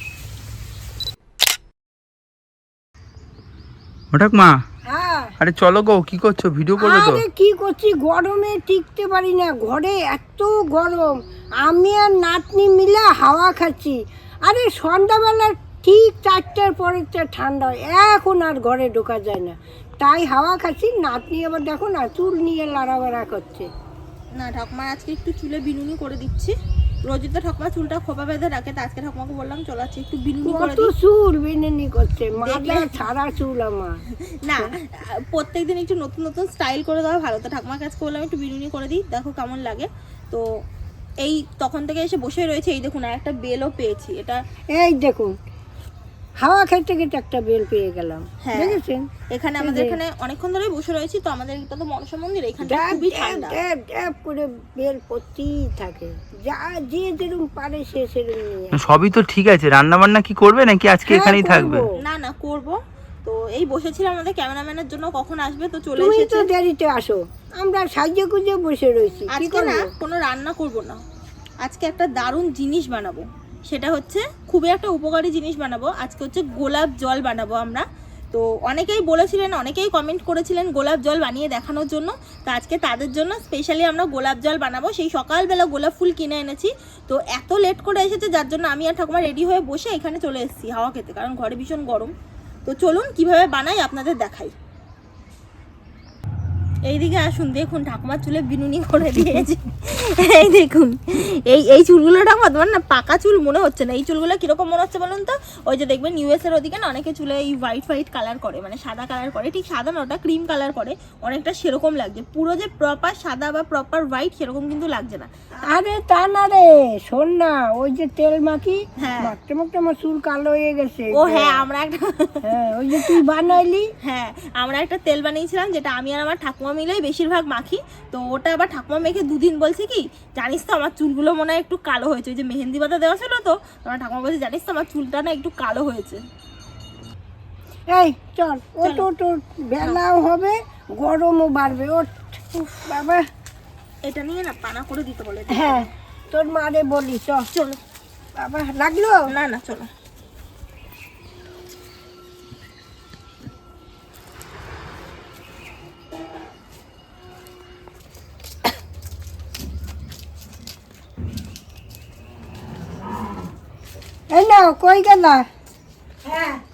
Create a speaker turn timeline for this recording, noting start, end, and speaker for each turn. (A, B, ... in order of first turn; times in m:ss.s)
0:04.1-0:04.6 A
0:04.9-0:05.3 B
0:05.4-0:07.2 A
0:06.8-0:23.7 B
0:24.4-0:30.9 C
0:30.4-0:34.0 B
0:32.4-0:33.0 C
0:34.3-0:40.4 C
0:41.2-0:44.4 C
0:44.8-0:45.3 B
0:46.4-0:49.1 B
0:48.4-0:48.8 C
0:49.3-0:53.6 C
0:49.6-0:50.0 B
0:52.6-0:58.8 B
0:58.7-1:01.8 A
1:01.1-1:02.0 B
1:02.0-1:06.5 C
1:06.0-1:09.9 B
1:09.3-1:11.0 C
1:11.6-1:32.1 C
1:32.6-1:34.5 C
1:36.9-1:55.3 C
1:55.7-2:01.6 B
1:59.0-1:59.3 C
2:01.1-2:03.2 C
2:02.4-2:03.8 B
2:04.0-2:16.2 C
2:17.9-2:22.3 B
2:22.6-2:22.8 C
2:22.9-2:23.2 B
2:24.0-2:25.9 C
2:25.5-2:27.4 B
2:27.5-2:27.8 C
2:28.4-2:29.2 B
2:29.3-2:29.9 C
2:44.3-2:45.4 B